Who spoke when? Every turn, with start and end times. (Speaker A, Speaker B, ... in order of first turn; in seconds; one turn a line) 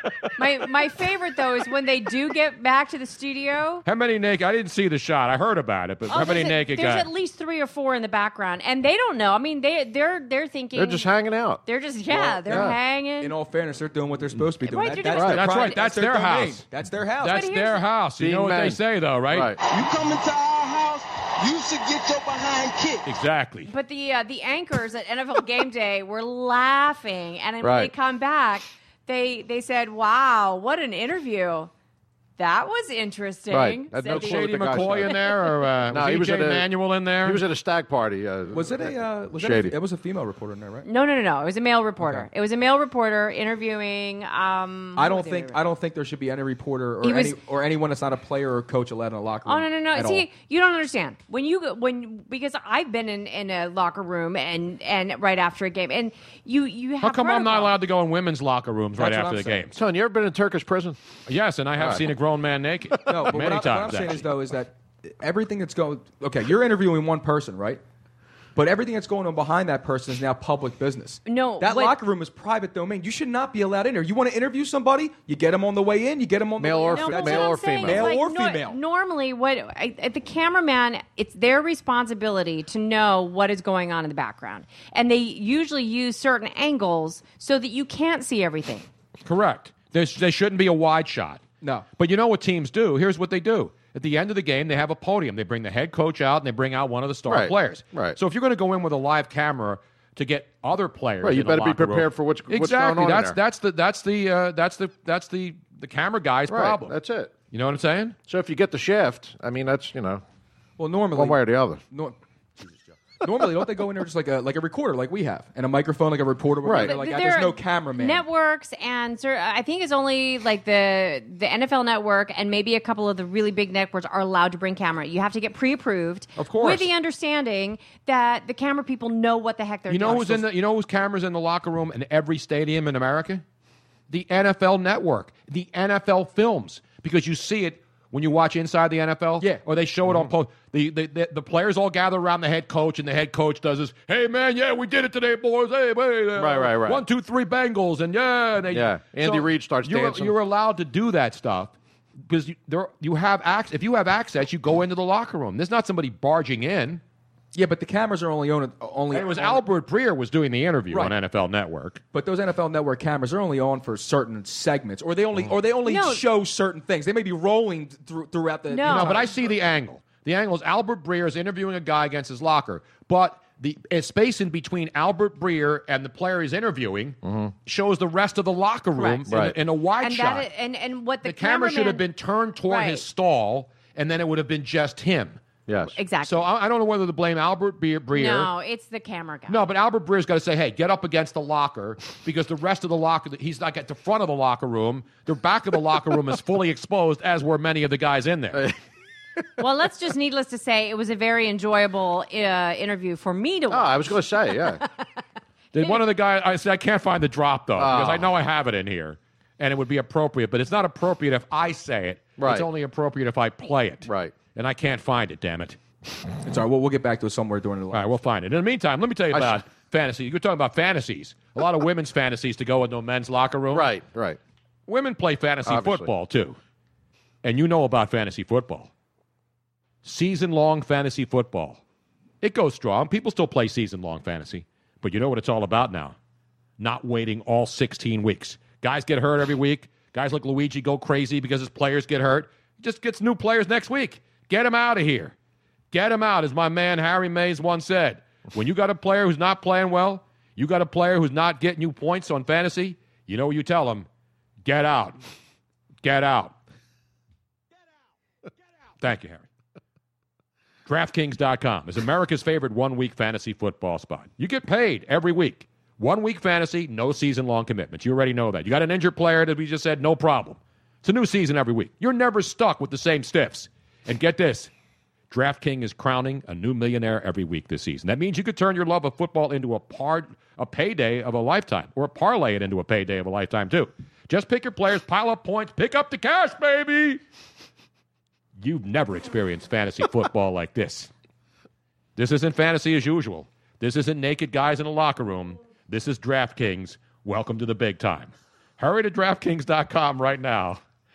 Speaker A: 0.4-3.8
Speaker B: 3.9-7.1
Speaker A: 6.1-11.1
Speaker C: 10.7-11.6
Speaker A: 11.6-13.3
Speaker C: 12.1-12.8
Speaker D: 12.5-17.5
Speaker A: 14.7-15.8
Speaker C: 15.1-15.4
Speaker B: 15.2-16.6
Speaker B: 17.2-19.5
Speaker A: 17.3-17.8
Speaker C: 18.2-18.8
Speaker C: 19.3-19.6
Speaker E: 19.7-23.0
Speaker B: 23.1-23.7
Speaker A: 23.7-31.7
Speaker C: 27.6-27.9
Speaker A: 32.4-35.2
Speaker C: 33.5-35.3
Speaker B: 34.1-37.4
Speaker C: 35.9-36.7
Speaker C: 37.2-39.8
Speaker D: 38.5-40.9
Speaker A: 40.9-45.6
Speaker D: 42.0-42.3
Speaker D: 45.0-50.3
Speaker A: 47.0-47.4
Speaker A: 49.5-57.7
Speaker B: 57.0-59.8
Speaker D: 59.0-59.6
Speaker C: 59.7-61.0
Speaker B: 61.3-64.3
Speaker C: 61.8-62.1
Speaker D: 63.1-67.8
Speaker D: 68.5-78.8
Speaker A: 71.3-72.0
Speaker C: 76.6-78.2
Speaker A: 76.8-88.9
Speaker B: 89.2-91.4
Speaker D: 91.6-91.9
Speaker B: 92.0-106.9
Speaker C: 97.3-98.2
Speaker C: 101.2-103.4
Speaker C: 106.5-107.3
Speaker B: 107.5-108.2
Speaker C: 108.3-110.2
Speaker D: 110.8-118.2
Speaker C: 111.1-111.8
Speaker C: 116.6-116.9
Speaker A: 116.8-130.5
Speaker B: 126.4-126.8
Speaker D: 126.5-126.8
Speaker B: 129.9-133.4
Speaker B: 134.1-151.7
Speaker C: 146.4-147.0
Speaker C: 148.7-150.3
Speaker B: 152.3-157.0
Speaker D: 157.5-159.6
Speaker B: 159.1-162.0
Speaker D: 162.1-169.5
Speaker A: 165.9-166.2
Speaker A: 168.7-169.3
Speaker B: 168.8-180.5
Speaker C: 177.2-177.5
Speaker A: 179.0-179.3
Speaker C: 179.3-179.6
Speaker A: 180.0-182.0
Speaker B: 181.2-185.4
Speaker A: 182.7-183.0
Speaker C: 185.7-186.0
Speaker A: 186.0-186.4
Speaker B: 186.2-188.5
Speaker A: 188.1-189.6
Speaker B: 189.5-198.7
Speaker A: 199.6-204.9
Speaker C: 203.7-204.8
Speaker B: 205.7-215.8
Speaker C: 207.8-208.3
Speaker C: 212.4-212.7
Speaker C: 214.1-214.4
Speaker D: 216.4-218.1
Speaker B: 217.9-223.9
Speaker C: 219.3-219.6
Speaker C: 223.7-224.4
Speaker B: 224.9-226.6
Speaker C: 225.7-226.1
Speaker B: 227.4-228.9
Speaker B: 230.0-231.8
Speaker B: 232.4-236.2
Speaker B: 236.8-245.3
Speaker B: 245.9-254.1
Speaker B: 254.6-255.2
Speaker B: 256.0-256.6
Speaker B: 259.0-259.5
Speaker B: 260.9-274.7
Speaker B: 275.3-287.2
Speaker B: 288.6-291.1
Speaker B: 292.2-300.8